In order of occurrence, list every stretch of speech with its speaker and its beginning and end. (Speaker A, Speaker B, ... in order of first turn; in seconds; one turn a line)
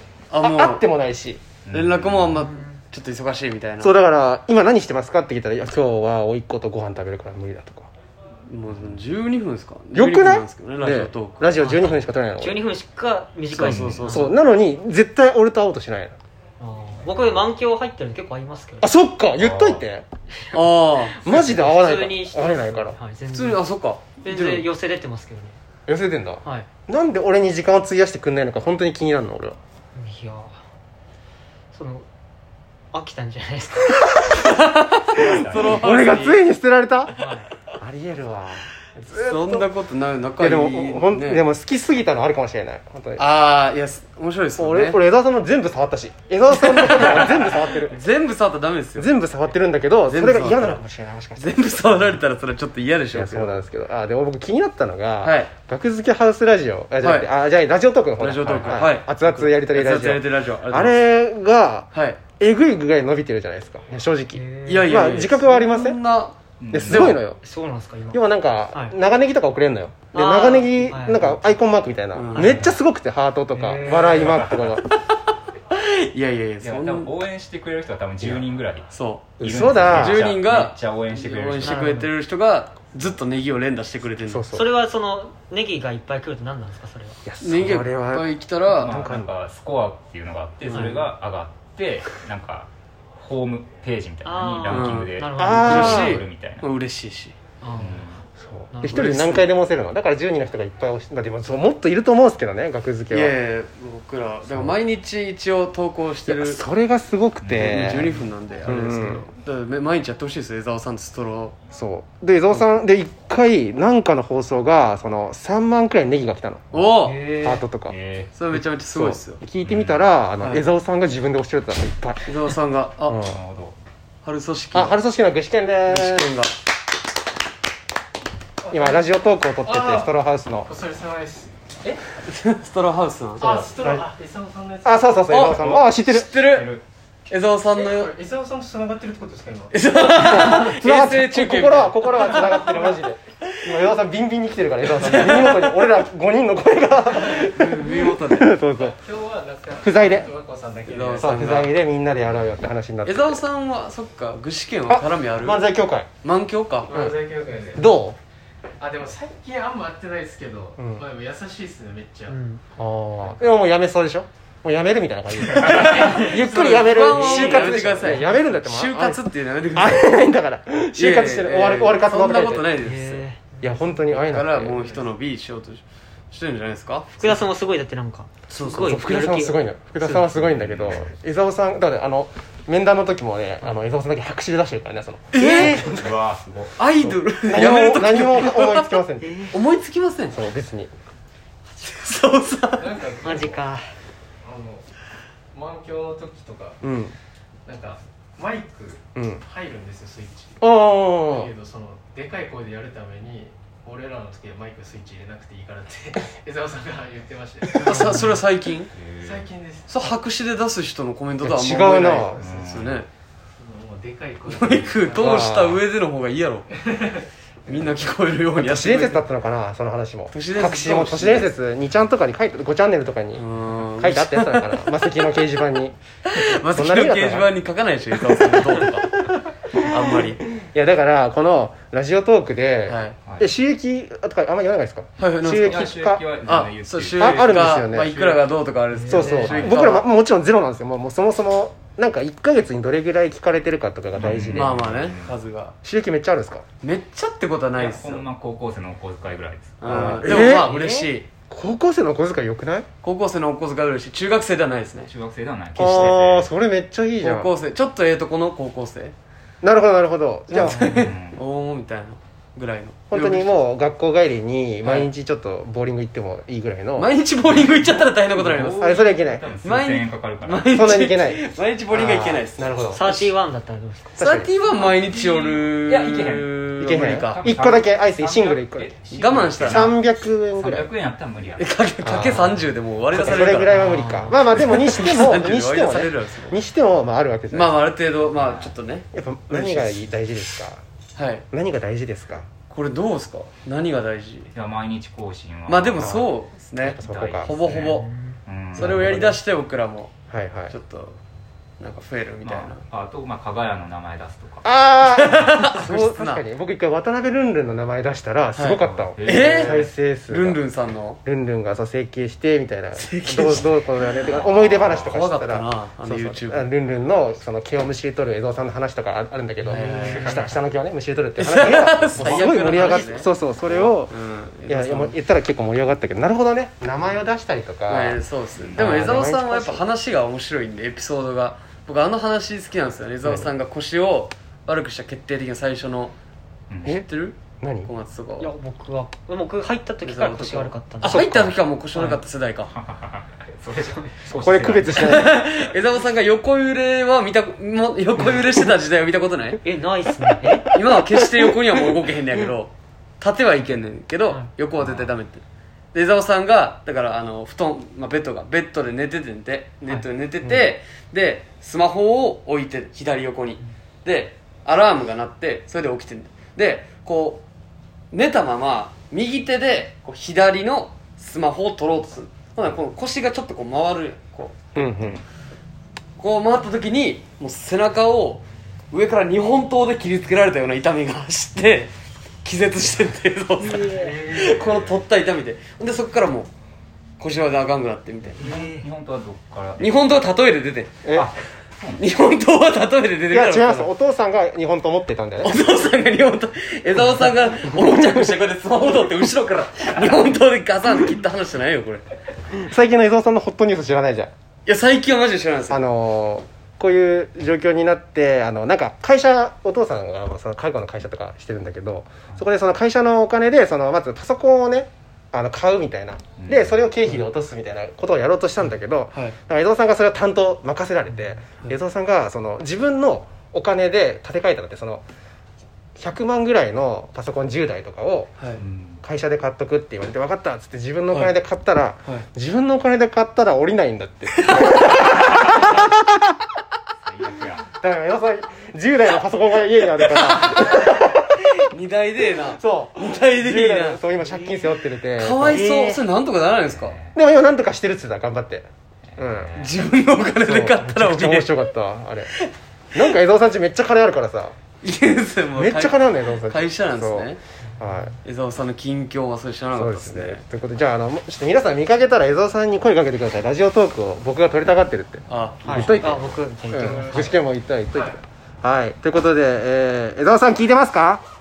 Speaker A: 0.3-0.8
Speaker B: 0.4-1.4
Speaker C: 1.6-2.4
Speaker A: 1.7-3.9
Speaker D: 2.5-2.8
Speaker B: 3.8-7.9
Speaker A: 8.5-11.5
Speaker B: 9.9-12.6
Speaker D: 12.4-14.2
Speaker A: 13.5-14.3
Speaker B: 14.0-16.2
Speaker D: 16.6-18.9
Speaker B: 18.8-20.0
Speaker C: 19.4-19.8
Speaker A: 20.5-21.4
Speaker B: 21.2-23.0
Speaker D: 21.4-23.4
Speaker A: 23.3-24.7
Speaker D: 24.2-25.6
Speaker B: 25.9-29.6
Speaker D: 26.4-26.7
Speaker D: 29.9-30.6
Speaker D: 31.7-32.1
Speaker D: 32.9-34.2
Speaker B: 34.1-34.5
Speaker A: 34.4-36.4
Speaker C: 35.1-35.9
Speaker B: 35.2-39.7
Speaker D: 37.2-37.5
Speaker A: 39.1-41.4
Speaker B: 40.4-43.2
Speaker A: 43.2-45.0
Speaker B: 44.6-48.0
Speaker A: 46.5-49.1
Speaker B: 49.0-52.0
Speaker A: 50.1-50.8
Speaker A: 51.4-53.6
Speaker B: 53.1-66.0
Speaker A: 55.2-55.5
Speaker A: 57.0-57.3
Speaker A: 58.2-61.0
Speaker C: 58.5-58.8
Speaker A: 61.9-62.2
Speaker D: 64.3-64.9
Speaker A: 64.6-66.3
Speaker C: 66.6-67.2
Speaker B: 66.7-67.4
Speaker A: 66.9-67.2
Speaker D: 67.4-68.2
Speaker B: 68.1-74.9
Speaker D: 70.1-71.4
Speaker A: 72.1-72.8
Speaker D: 73.5-74.1
Speaker C: 74.1-74.8
Speaker A: 75.7-77.2
Speaker C: 76.6-81.9
Speaker A: 78.3-79.3
Speaker B: 79.4-80.3
Speaker A: 79.9-84.5
Speaker D: 81.7-82.1
Speaker B: 84.2-84.7
Speaker D: 84.5-87.2
Speaker B: 87.2-89.3
Speaker A: 87.4-89.0
Speaker C: 88.7-96.6
Speaker A: 90.7-91.1
Speaker D: 94.2-95.5
Speaker A: 94.7-97.9
Speaker B: 95.3-96.2
Speaker C: 97.8-98.2
Speaker B: 98.4-103.3
Speaker A: 98.8-99.5
Speaker A: 103.1-106.6
Speaker B: 104.5-104.8
Speaker B: 106.2-109.2
Speaker C: 107.4-107.8
Speaker A: 107.6-111.6
Speaker B: 111.7-116.7
Speaker A: 116.7-117.2
Speaker C: 117.0-118.3
Speaker B: 117.4-118.0
Speaker A: 118.3-119.4
Speaker B: 118.6-122.3
Speaker C: 119.6-120.1
Speaker A: 120.4-120.7
Speaker A: 122.3-123.2
Speaker B: 123.1-123.4
Speaker C: 123.2-123.8
Speaker A: 124.2-125.0
Speaker B: 124.7-126.3
Speaker A: 125.8-126.5
Speaker E: 128.6-129.0
Speaker B: 128.7-130.7
Speaker E: 129.6-130.1
Speaker E: 130.7-132.0
Speaker A: 132.2-133.6
Speaker E: 133.4-135.1
Speaker C: 133.4-133.7
Speaker B: 133.8-134.1
Speaker B: 134.8-136.3
Speaker A: 135.3-136.7
Speaker C: 135.4-136.8
Speaker A: 137.3-138.1
Speaker E: 137.7-139.8
Speaker A: 139.7-143.0
Speaker B: 140.0-149.0
Speaker A: 144.8-145.9
Speaker A: 147.2-148.6
Speaker E: 148.8-151.4
Speaker B: 149.8-150.3
Speaker A: 150.9-151.7
Speaker B: 151.2-153.4
Speaker A: 153.1-155.7
Speaker B: 154.9-156.1
Speaker A: 156.2-156.9
Speaker E: 156.9-157.8
Speaker B: 157.8-158.2
Speaker E: 158.8-162.3
Speaker B: 160.8-161.0
Speaker D: 162.3-162.6
Speaker B: 162.8-172.7
Speaker C: 165.5-166.0
Speaker A: 165.7-170.1
Speaker E: 165.9-166.8
Speaker D: 167.0-167.7
Speaker A: 170.9-173.2
Speaker D: 172.9-173.7
Speaker B: 173.6-175.0
Speaker A: 174.1-177.5
Speaker D: 177.2-179.5
Speaker A: 178.5-178.9
Speaker B: 178.6-186.1
Speaker A: 180.0-180.2
Speaker C: 180.3-181.1
Speaker A: 185.3-186.0
Speaker C: 185.6-187.2
Speaker A: 186.8-190.4
Speaker B: 187.4-189.6
Speaker B: 190.3-190.9
Speaker A: 191.8-193.0
Speaker E: 192.8-193.6
Speaker D: 193.2-193.9
Speaker E: 194.4-194.9
Speaker E: 195.6-196.8
Speaker B: 196.8-197.1
Speaker E: 197.7-200.6
Speaker B: 199.1-199.4
Speaker B: 200.6-201.5
Speaker E: 201.4-208.4
Speaker A: 207.7-208.9
Speaker D: 208.0-208.2
Speaker C: 208.9-209.5
Speaker E: 209.2-210.0
Speaker A: 209.9-213.1
Speaker B: 211.4-212.4
Speaker C: 212.4-212.9
Speaker E: 213.6-215.4
Speaker A: 214.4-216.7
Speaker B: 215.2-215.8
Speaker E: 216.8-217.2
Speaker A: 217.7-219.3
Speaker B: 218.6-223.4
Speaker A: 220.3-221.5
Speaker A: 223.3-224.8
Speaker B: 223.9-225.9
Speaker A: 226.2-230.4
Speaker B: 226.6-227.5
Speaker B: 230.5-236.2
Speaker A: 232.9-233.2
Speaker A: 235.2-235.9
Speaker C: 235.7-238.4
Speaker A: 236.4-240.1
Speaker B: 237.2-238.1
Speaker B: 239.1-244.8
Speaker C: 239.2-239.8
Speaker C: 244.2-245.4
Speaker A: 244.6-245.8
Speaker B: 245.8-246.6
Speaker A: 246.8-248.3
Speaker C: 247.8-250.2
Speaker A: 249.8-251.3
Speaker B: 249.9-250.9
Speaker B: 251.5-252.9
Speaker A: 253.0-255.1
Speaker C: 255.1-256.5
Speaker B: 255.8-257.5
Speaker A: 257.2-259.1
Speaker B: 259.6-260.9
Speaker A: 260.5-263.6
Speaker C: 260.9-261.4
Speaker B: 263.1-267.1
Speaker A: 264.8-265.1
Speaker A: 266.9-268.9
Speaker C: 267.4-271.0
Speaker B: 268.8-269.5
Speaker A: 269.6-273.3
Speaker B: 270.7-273.0
Speaker D: 272.9-274.2
Speaker B: 274.1-274.6
Speaker A: 274.2-277.4
Speaker C: 274.7-281.8
Speaker B: 276.8-278.9
Speaker A: 279.1-279.9
Speaker B: 279.6-280.9
Speaker A: 281.6-283.9
Speaker B: 282.0-287.8
Speaker D: 283.7-284.4
Speaker A: 284.5-286.6
Speaker A: 287.5-290.1
Speaker C: 288.3-288.7
Speaker B: 289.1-290.8
Speaker A: 291.1-291.4
Speaker B: 291.5-292.5
Speaker A: 292.7-294.5
Speaker C: 294.5-296.3
Speaker A: 295.7-298.1
Speaker B: 296.0-296.2
Speaker C: 296.8-299.3
Speaker B: 296.8-297.6
Speaker D: 298.0-298.4
Speaker B: 298.8-299.4
Speaker A: 298.8-300.1
Speaker B: 300.3-300.7
Speaker A: 300.7-301.2
Speaker A: 301.8-302.8
Speaker C: 302.4-304.6
Speaker B: 304.6-310.6
Speaker A: 305.1-306.4
Speaker A: 308.6-311.2
Speaker C: 308.9-309.9
Speaker B: 311.2-324.1
Speaker A: 312.9-316.7
Speaker C: 314.3-315.2
Speaker A: 319.7-320.4
Speaker C: 319.7-320.5
Speaker A: 321.4-325.2
Speaker B: 324.7-328.2
Speaker A: 327.9-336.1
Speaker C: 328.6-329.0
Speaker B: 328.7-329.8
Speaker C: 336.7-337.0
Speaker A: 336.9-338.5
Speaker B: 337.6-337.9
Speaker D: 338.4-341.2
Speaker A: 340.0-342.7
Speaker B: 341.0-341.6
Speaker C: 342.7-345.2
Speaker B: 344.4-345.3
Speaker A: 344.9-349.6
Speaker D: 349.6-350.7
Speaker A: 350.7-355.4
Speaker C: 354.8-355.1
Speaker A: 355.9-367.4
Speaker B: 360.4-360.7
Speaker A: 368.1-374.9
Speaker B: 374.8-375.2
Speaker A: 376.2-386.5
Speaker C: 383.8-385.1
Speaker A: 387.2-388.5
Speaker C: 388.4-389.9
Speaker D: 388.4-388.8
Speaker A: 389.8-391.0
Speaker B: 391.0-391.3
Speaker C: 391.1-392.0
Speaker A: 392.0-393.9
Speaker B: 393.3-395.6
Speaker A: 395.4-402.0
Speaker B: 402.5-404.3
Speaker A: 404.7-405.8
Speaker B: 405.7-425.0
Speaker C: 416.4-416.8
Speaker B: 426.0-428.3
Speaker C: 428.6-429.0
Speaker B: 429.0-436.0
Speaker A: 434.3-435.6
Speaker C: 435.3-435.9
Speaker C: 437.0-437.7
Speaker B: 437.8-441.4
Speaker A: 440.0-447.0
Speaker B: 442.5-446.0
Speaker C: 446.6-447.2
Speaker B: 447.1-448.7
Speaker C: 449.1-450.1
Speaker B: 449.2-449.6
Speaker A: 449.6-451.7
Speaker B: 450.4-452.3
Speaker A: 452.4-453.2
Speaker B: 452.9-454.6
Speaker A: 454.8-457.4
Speaker B: 455.6-458.2
Speaker A: 458.2-460.4
Speaker B: 459.7-471.2
Speaker A: 465.3-466.0
Speaker D: 465.6-467.3